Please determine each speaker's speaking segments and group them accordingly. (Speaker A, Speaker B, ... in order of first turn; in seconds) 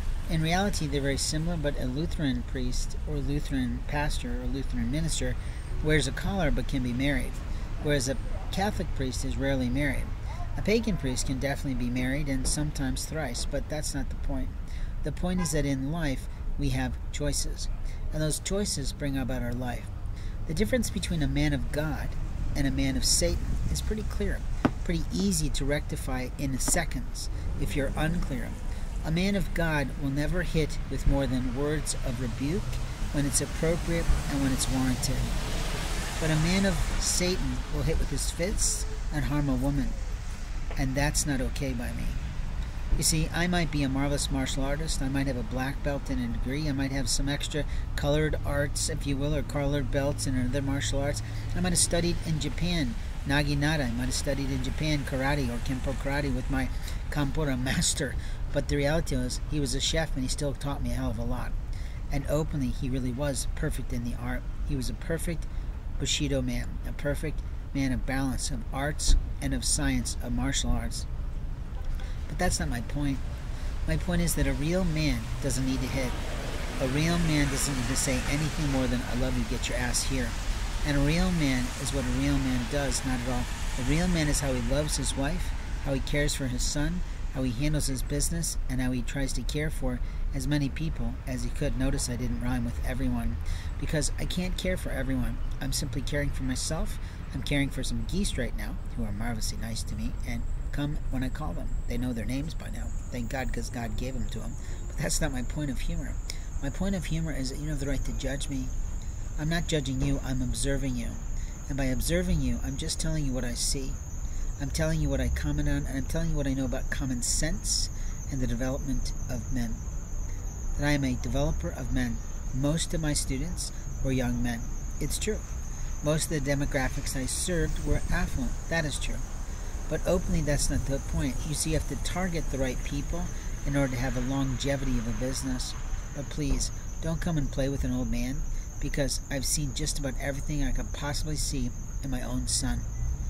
Speaker A: 0.3-19.9, 20.5-35.4, 36.2-40.0, 40.8-42.2, 43.0-61.5, 62.1-65.5, 66.0-71.1, 72.3-73.2, 73.8-76.2, 76.8-108.7, 109.4-114.0, 114.6-119.8, 120.8-125.5, 126.0-129.2, 129.9-142.9